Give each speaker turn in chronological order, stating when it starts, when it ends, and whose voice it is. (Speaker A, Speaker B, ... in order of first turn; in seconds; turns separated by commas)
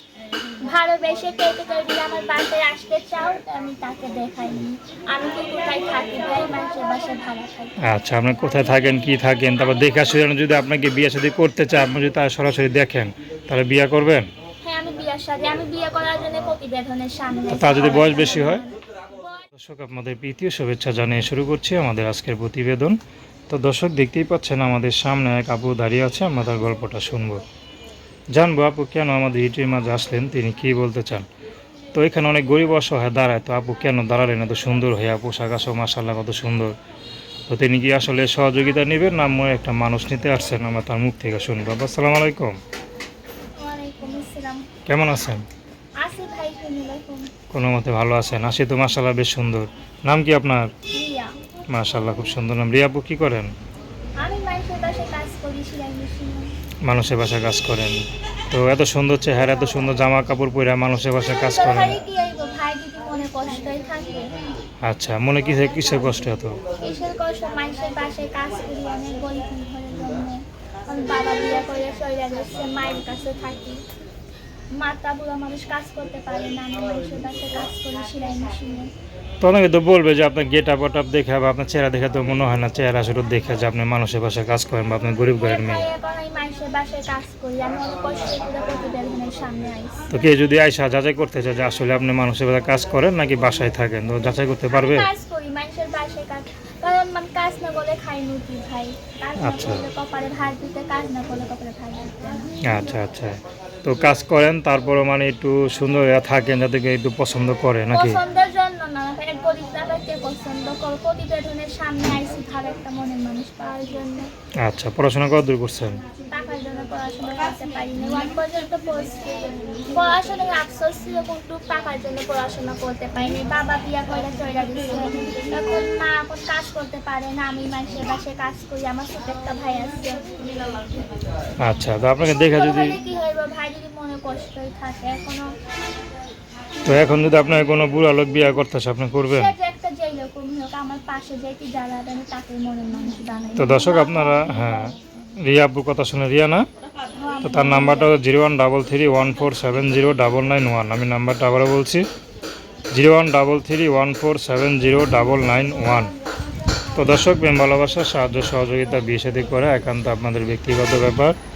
Speaker A: 0.6-7.7, Speaker B: 7.8-14.3, Speaker A: 14.6-18.8, Speaker B: 17.5-18.6, Speaker B: 19.5-23.0, Speaker B: 23.5-27.4, Speaker B: 28.4-31.3, Speaker B: 31.9-36.7, Speaker B: 37.5-42.6, Speaker A: 43.6-44.7, Speaker B: 44.9-45.4, Speaker A: 46.0-47.3, Speaker B: 47.5-50.7, Speaker A: 50.9-51.4, Speaker B: 51.7-53.5, Speaker A: 54.2-56.5, Speaker B: 56.9-62.0, Speaker A: 61.3-64.3, Speaker B: 64.8-66.6, Speaker A: 66.8-73.8, Speaker A: 74.8-78.9, Speaker B: 79.4-85.9, Speaker A: 85.4-90.1, Speaker B: 90.1-95.1, Speaker A: 94.7-102.5, Speaker B: 99.4-99.8, Speaker B: 102.7-108.2, Speaker A: 107.9-114.3, Speaker B: 114.6-116.0, Speaker A: 116.2-130.2, Speaker B: 131.6-133.0, Speaker A: 132.2-135.5, Speaker B: 136.8-139.5, Speaker A: 139.3-144.9, Speaker B: 143.6-144.9, Speaker B: 145.4-146.7, Speaker A: 147.1-148.2, Speaker B: 147.4-152.1, Speaker B: 152.9-156.2, Speaker B: 156.9-161.3